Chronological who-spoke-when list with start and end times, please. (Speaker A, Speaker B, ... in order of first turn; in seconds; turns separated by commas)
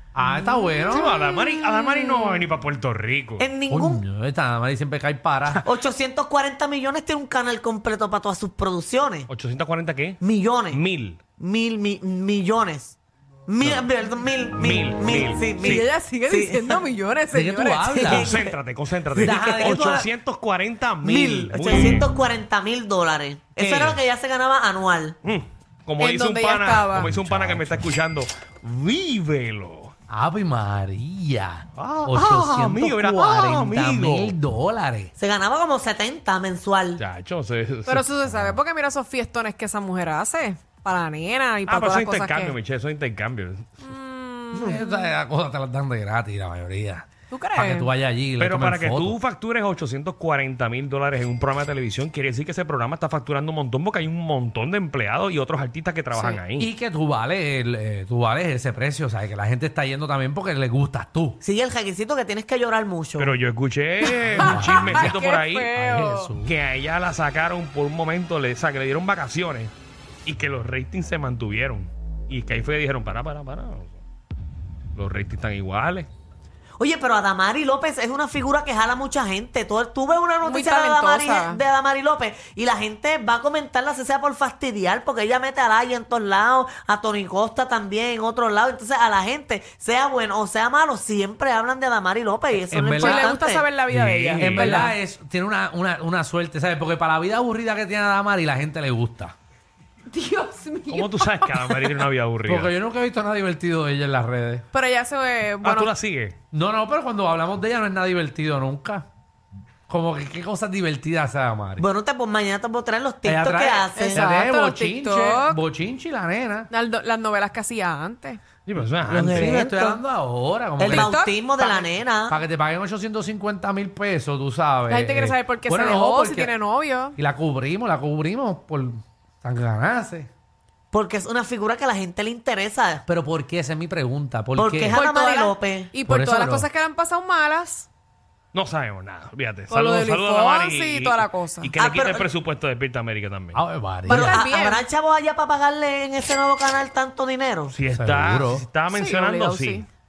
Speaker A: 0.1-1.1, Speaker B: 0.9-3.5, Speaker C: 3.4-4.0, Speaker A: 3.7-5.6, Speaker C: 5.6-9.3, Speaker B: 9.3-11.2, Speaker C: 10.2-10.8, Speaker C: 11.4-16.8, Speaker B: 13.6-13.9, Speaker B: 14.6-15.8, Speaker D: 15.6-18.2, Speaker A: 17.3-18.4, Speaker C: 18.0-18.5, Speaker B: 18.1-22.1, Speaker C: 19.1-19.9, Speaker A: 19.2-20.1, Speaker C: 21.0-25.2, Speaker B: 23.6-24.0, Speaker B: 25.2-29.9, Speaker D: 26.0-27.1, Speaker A: 26.9-27.8, Speaker A: 30.1-35.1, Speaker B: 31.7-34.3, Speaker C: 35.2-37.0, Speaker B: 37.0-38.6, Speaker D: 37.9-42.6, Speaker B: 41.6-43.7, Speaker D: 43.8-45.0, Speaker A: 44.5-49.2, Speaker D: 47.3-47.9, Speaker B: 48.4-56.7, Speaker D: 56.1-56.4, Speaker A: 56.6-61.4, Speaker C: 61.4-63.3, Speaker B: 63.2-65.7, Speaker A: 64.3-66.5, Speaker D: 64.4-66.3, Speaker B: 66.4-69.7, Speaker B: 70.2-74.0, Speaker B: 74.9-76.1, Speaker C: 76.8-93.7, Speaker D: 80.4-81.6, Speaker A: 92.6-93.4, Speaker D: 92.9-94.9, Speaker B: 93.9-94.9, Speaker A: 94.3-99.3, Speaker D: 100.1-102.0, Speaker B: 100.9-102.7, Speaker A: 102.5-104.6, Speaker D: 104.7-105.9, Speaker B: 105.6-106.3, Speaker A: 106.5-109.0, Speaker A: 109.9-111.8, Speaker C: 111.8-114.2, Speaker A: 113.2-116.7, Speaker D: 113.9-115.6, Speaker D: 116.7-118.4, Speaker B: 118.7-119.6, Speaker C: 119.1-120.0, Speaker A: 119.2-121.1, Speaker C: 120.8-122.3, Speaker D: 120.8-121.9, Speaker A: 122.3-126.5, Speaker D: 124.9-127.2, Speaker A: 127.2-130.3, Speaker C: 130.9-133.0, Speaker A: 133.1-135.0, Speaker C: 134.6-135.9, Speaker D: 134.9-137.9, Speaker A: 136.1-136.7, Speaker B: 138.5-143.6, Speaker D: 139.7-141.7, Speaker C: 141.8-142.3, Speaker A: 143.5-144.4, Speaker C: 144.1-147.7, Speaker D: 144.1-144.8, Speaker B: 147.7-149.8, Speaker A: 147.9-148.7, Speaker D: 148.9-149.8